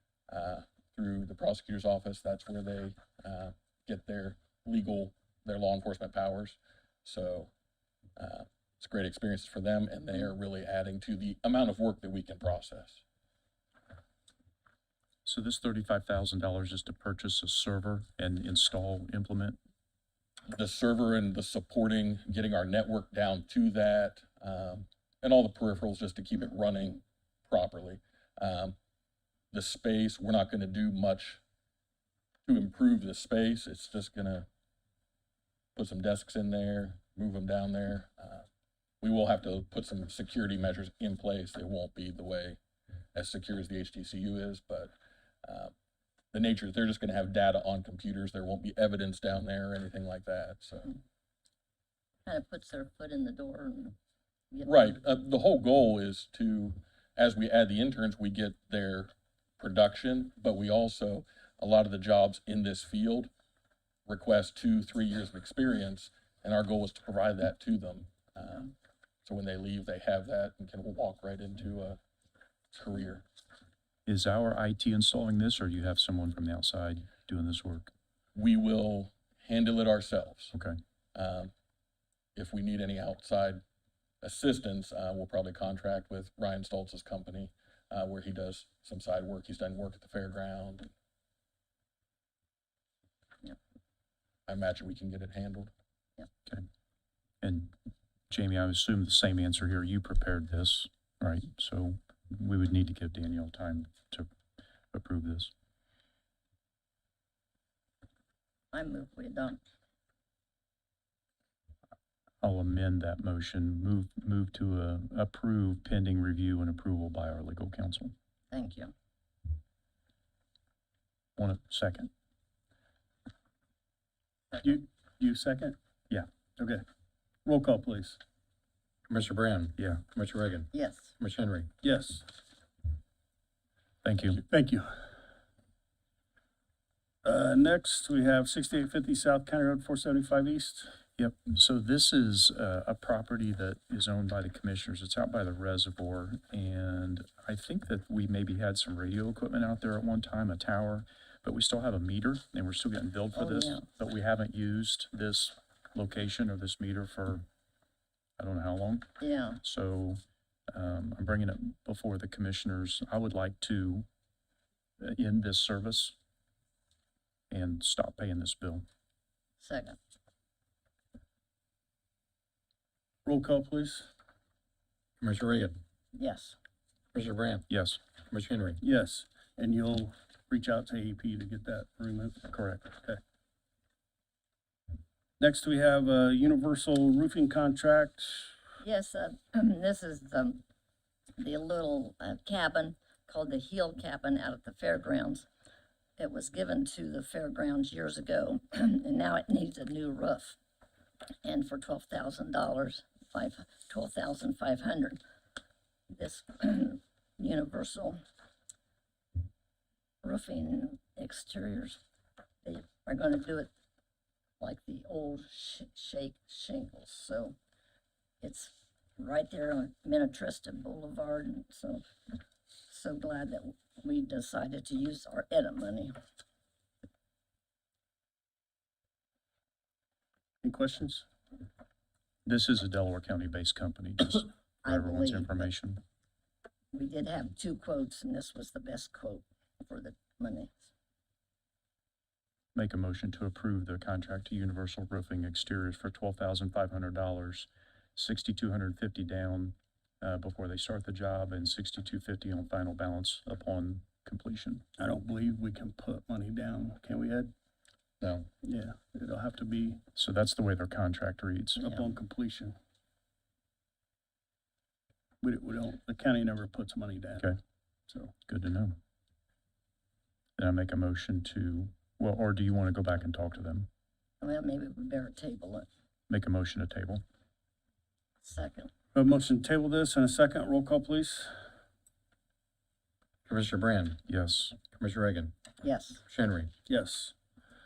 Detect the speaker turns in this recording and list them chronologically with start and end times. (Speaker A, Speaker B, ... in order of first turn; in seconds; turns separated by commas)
Speaker A: 0.3-7.5, Speaker A: 8.2-13.0, Speaker B: 15.2-19.6, Speaker A: 20.5-28.8, Speaker A: 29.5-31.4, Speaker A: 32.5-34.5, Speaker A: 35.8-38.5, Speaker A: 39.0-42.6, Speaker A: 43.1-44.9, Speaker A: 45.4-45.7, Speaker A: 46.3-50.9, Speaker C: 52.3-54.0, Speaker C: 54.5-54.9, Speaker A: 54.6-63.3, Speaker A: 64.1-68.7, Speaker A: 69.2-72.0, Speaker A: 72.7-73.2, Speaker B: 74.1-77.9, Speaker A: 78.3-80.5, Speaker B: 80.5-80.8, Speaker A: 81.2-81.5, Speaker A: 82.4-83.6, Speaker A: 84.2-90.9, Speaker A: 94.5-95.7, Speaker B: 97.4-97.7, Speaker B: 98.3-104.3, Speaker B: 104.9-105.5, Speaker C: 108.7-109.6, Speaker B: 112.4-118.1, Speaker C: 118.5-118.9, Speaker B: 121.4-122.1, Speaker D: 124.5-125.8, Speaker D: 126.6-126.8, Speaker D: 127.5-128.2, Speaker E: 129.1-131.7, Speaker B: 129.8-130.0, Speaker C: 130.7-131.1, Speaker D: 131.8-132.2, Speaker B: 134.0-134.4, Speaker D: 134.5-135.1, Speaker D: 137.2-141.0, Speaker B: 141.2-157.5, Speaker C: 153.4-153.8, Speaker B: 158.4-159.1, Speaker C: 159.2-159.6, Speaker B: 159.6-164.1, Speaker B: 165.0-166.2, Speaker B: 167.5-168.8, Speaker C: 169.6-170.0, Speaker D: 173.2-174.1, Speaker E: 175.2-175.8, Speaker C: 176.1-176.6, Speaker E: 177.1-177.7, Speaker B: 177.7-178.0, Speaker E: 178.3-178.8, Speaker D: 178.8-183.2, Speaker B: 182.5-182.9, Speaker D: 185.4-188.6, Speaker C: 188.8-190.7, Speaker C: 191.4-195.5, Speaker C: 196.2-200.6, Speaker C: 201.4-205.2, Speaker C: 206.1-208.2, Speaker C: 210.2-212.0, Speaker C: 212.6-213.7, Speaker C: 214.6-217.6, Speaker C: 218.4-222.1, Speaker C: 222.9-226.1, Speaker D: 230.6-231.2, Speaker B: 232.5-236.0, Speaker C: 234.8-235.7, Speaker C: 236.9-240.7, Speaker B: 242.7-254.8, Speaker D: 255.0-257.5, Speaker E: 258.2-258.5, Speaker D: 258.6-260.0, Speaker B: 260.1-261.8, Speaker D: 261.8-262.8, Speaker D: 265.4-267.6, Speaker D: 268.1-268.3, Speaker B: 268.5-269.0, Speaker B: 270.6-273.9, Speaker C: 274.4-275.9, Speaker B: 276.3-277.2, Speaker C: 278.4-278.9, Speaker D: 279.1-281.6, Speaker E: 283.5-284.2, Speaker B: 284.3-284.8, Speaker E: 284.9-285.6, Speaker C: 285.8-286.2, Speaker E: 286.3-286.7, Speaker D: 286.9-287.4